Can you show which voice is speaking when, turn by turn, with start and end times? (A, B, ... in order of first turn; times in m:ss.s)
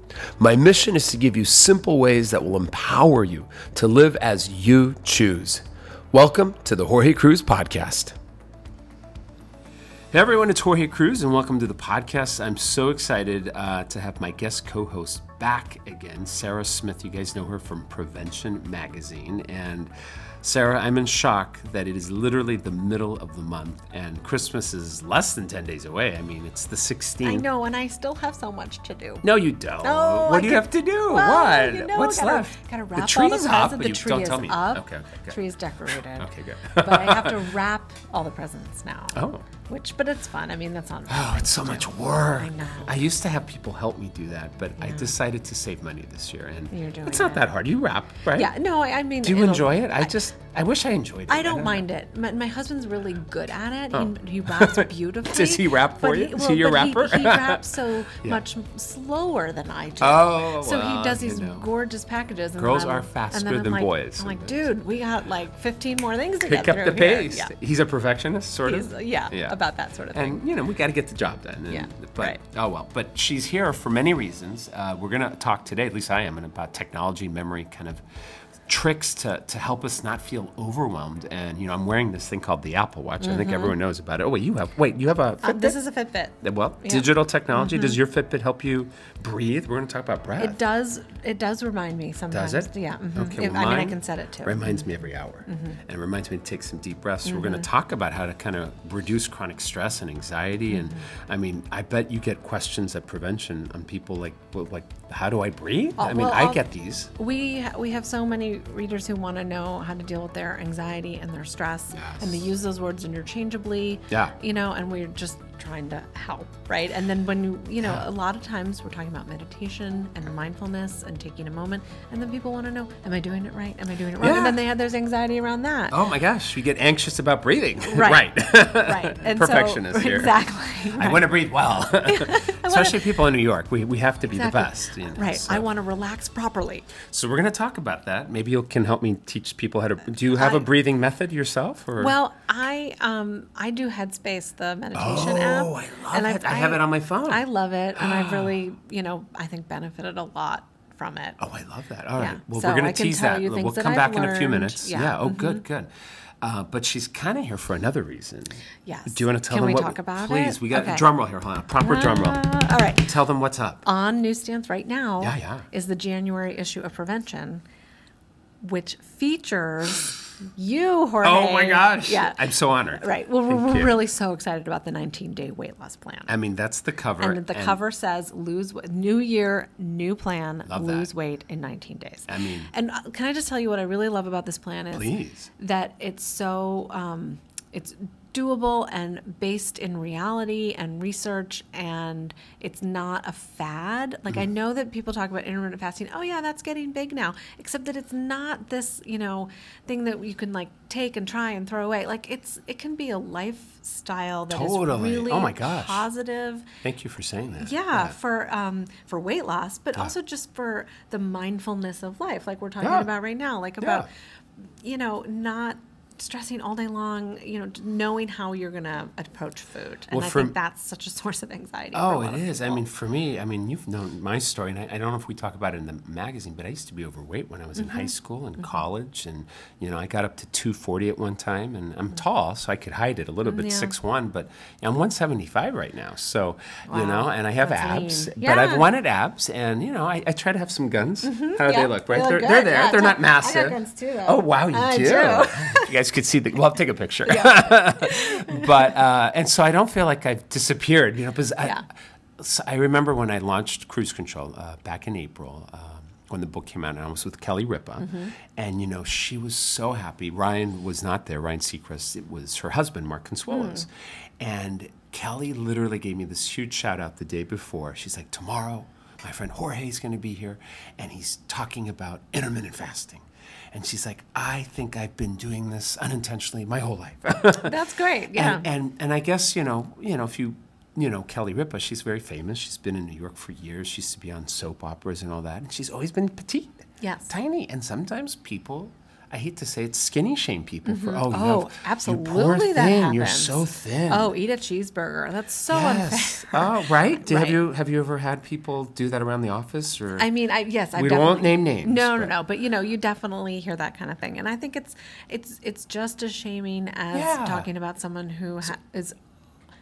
0:00.4-0:08.2 A
0:10.1-0:27.5 A
0:27.2-0:29.2 B
0:29.2-0:35.4 A
0:29.8-0:43.0 B
0:36.1-0:37.5 A
0:39.1-0:39.4 A
0:41.1-0:48.5 A
0:44.8-0:45.1 B
0:46.7-0:47.5 B
0:48.3-0:50.1 B
0:49.2-0:51.8 A
0:51.3-1:07.5 B
0:53.9-0:58.4 A
1:00.0-1:01.7 A
1:02.6-1:04.7 A
1:06.4-1:09.6 A
1:08.6-1:10.4 B
1:10.1-1:18.0 A
1:11.7-1:12.4 B
1:18.7-1:25.8 A
1:23.2-1:23.7 B
1:25.4-1:28.0 B
1:26.4-1:30.6 A
1:30.4-1:34.9 B
1:32.3-1:47.1 A
1:35.5-1:35.8 B
1:37.2-1:37.7 B
1:40.7-1:41.0 B
1:46.0-1:46.6 B
1:47.1-2:06.0 B
1:51.9-1:52.4 A
2:04.2-2:04.6 A
2:05.9-2:15.7 A
2:07.9-2:11.4 B
2:12.0-2:13.2 B
2:14.3-2:16.9 B
2:17.0-2:22.1 A
2:20.3-2:20.6 B
2:22.0-2:31.4 B
2:24.9-2:27.4 A
2:27.9-2:28.5 A
2:31.4-2:35.9 A
2:32.2-2:35.6 B
2:36.4-2:42.4 A
2:38.8-2:41.1 B
2:41.8-2:43.1 B
2:43.0-2:43.8 A
2:43.8-2:47.6 B
2:45.2-2:45.6 A
2:48.6-2:52.4 B
2:51.2-2:54.0 A
2:53.0-2:56.3 B
2:56.3-2:57.8 A
2:57.2-3:26.6 B
3:00.6-3:01.1 A
3:02.3-3:02.7 A
3:04.9-3:05.5 A
3:24.5-3:26.1 A
3:26.8-3:28.2 A
3:27.6-3:34.1 B
3:32.8-3:33.1 A
3:33.8-3:34.0 A
3:34.8-3:42.8 B
3:40.1-3:40.5 A
3:41.9-4:11.8 A
3:47.8-3:48.1 B
3:53.4-3:53.9 B
3:56.9-3:58.9 B
4:01.2-4:05.9 B
4:07.2-4:08.7 B
4:12.4-4:37.8 A
4:18.0-4:18.3 B
4:23.5-4:23.8 B
4:37.6-4:38.6 B
4:38.3-4:54.3 A
4:47.0-4:47.3 B
4:50.8-4:57.6 B
4:55.7-5:00.3 A
5:00.2-5:09.2 B
5:00.9-5:02.3 A
5:07.1-5:07.7 A